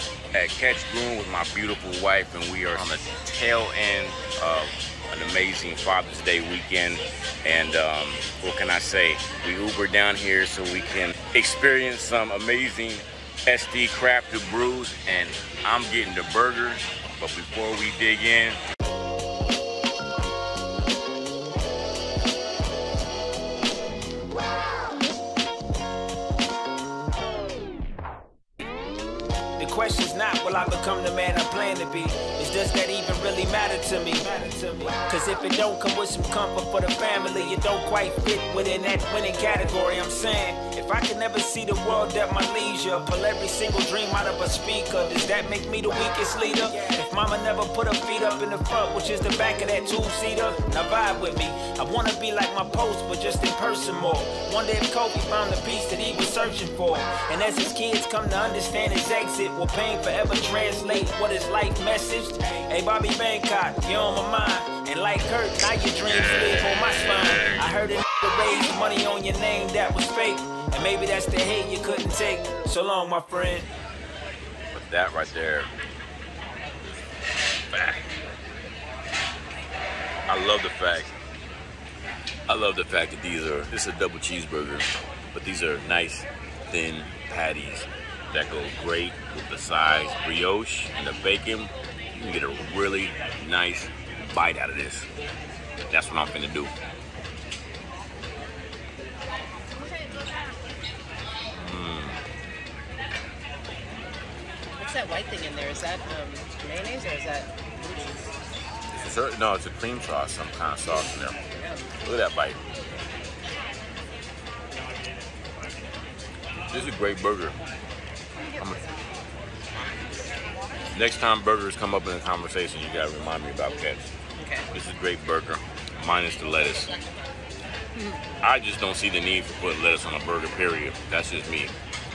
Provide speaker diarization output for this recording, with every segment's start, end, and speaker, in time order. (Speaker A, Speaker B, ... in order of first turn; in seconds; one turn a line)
Speaker A: 0.3-18.6
Speaker B: 29.6-73.7
Speaker A: 66.0-67.7
Speaker A: 74.7-75.7
Speaker A: 77.7-78.1
Speaker A: 80.3-81.1
Speaker A: 82.5-95.1
Speaker A: 95.9-96.7
Speaker A: 101.5-102.2
Speaker C: 104.8-108.3
Speaker A: 108.9-111.4
Speaker C: 111.5-111.9
Speaker A: 112.0-112.6
Speaker A: 116.7-117.6
Speaker A: 118.6-118.8
Speaker A: 120.9-124.1
Speaker C: 124.4-124.7
Speaker A: 124.7-126.9
Speaker C: 128.0-128.2
Speaker A: 128.4-131.7